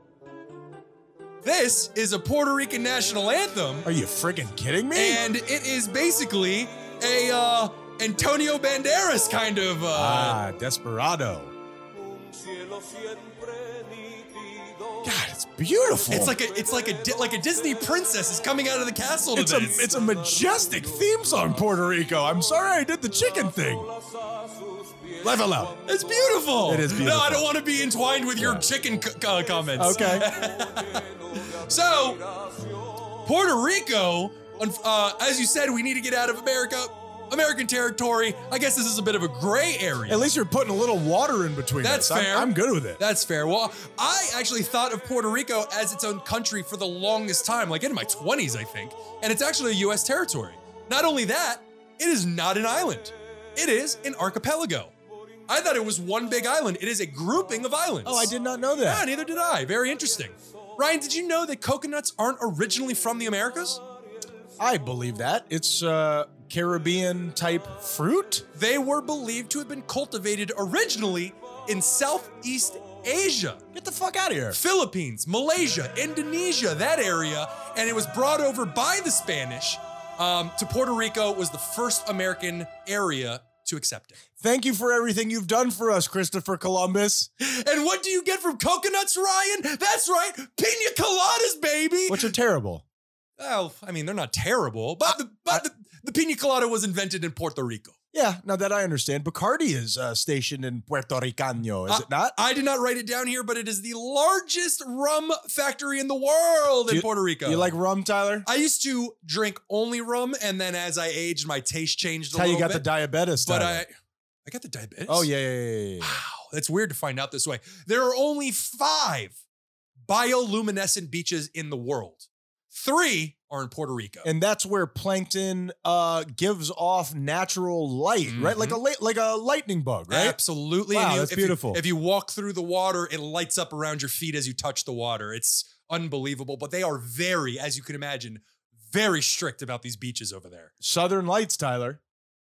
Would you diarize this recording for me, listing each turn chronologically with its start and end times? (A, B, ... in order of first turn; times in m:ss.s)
0:01.4-0:03.9 A
0:03.8-0:05.2 B
0:05.0-0:10.4 A
0:09.9-0:11.5 B
0:15.0-0:16.4 B
0:16.1-0:19.9 A
0:19.3-0:23.9 B
0:25.2-0:25.8 B
0:25.8-0:32.4 A
0:26.6-0:27.5 B
0:28.4-0:28.7 B
0:29.8-0:30.3 B
0:33.2-0:40.3 A
0:40.1-0:43.0 B
0:41.8-0:54.9 A
0:55.5-0:58.3 A
0:58.0-0:59.1 B
0:58.9-1:03.8 A
1:04.6-1:08.4 B
1:08.6-1:13.6 A
1:13.7-1:14.6 B
1:14.5-1:24.2 A
1:24.4-1:27.3 B
1:27.4-1:32.3 A
1:32.1-1:32.8 B
1:33.4-1:38.0 A
1:35.1-1:35.6 B
1:38.1-1:42.4 B
1:41.9-1:47.8 A
1:46.9-1:48.5 B
1:48.5-1:52.9 A
1:52.3-1:53.8 B
1:53.4-1:53.9 A
1:54.5-1:55.3 A
1:55.1-1:56.2 B
1:56.0-1:59.4 A
2:00.1-2:04.3 A
2:04.2-2:10.4 B
2:08.3-2:08.8 A
2:10.1-2:20.7 A
2:10.9-2:11.8 B
2:20.8-2:22.0 B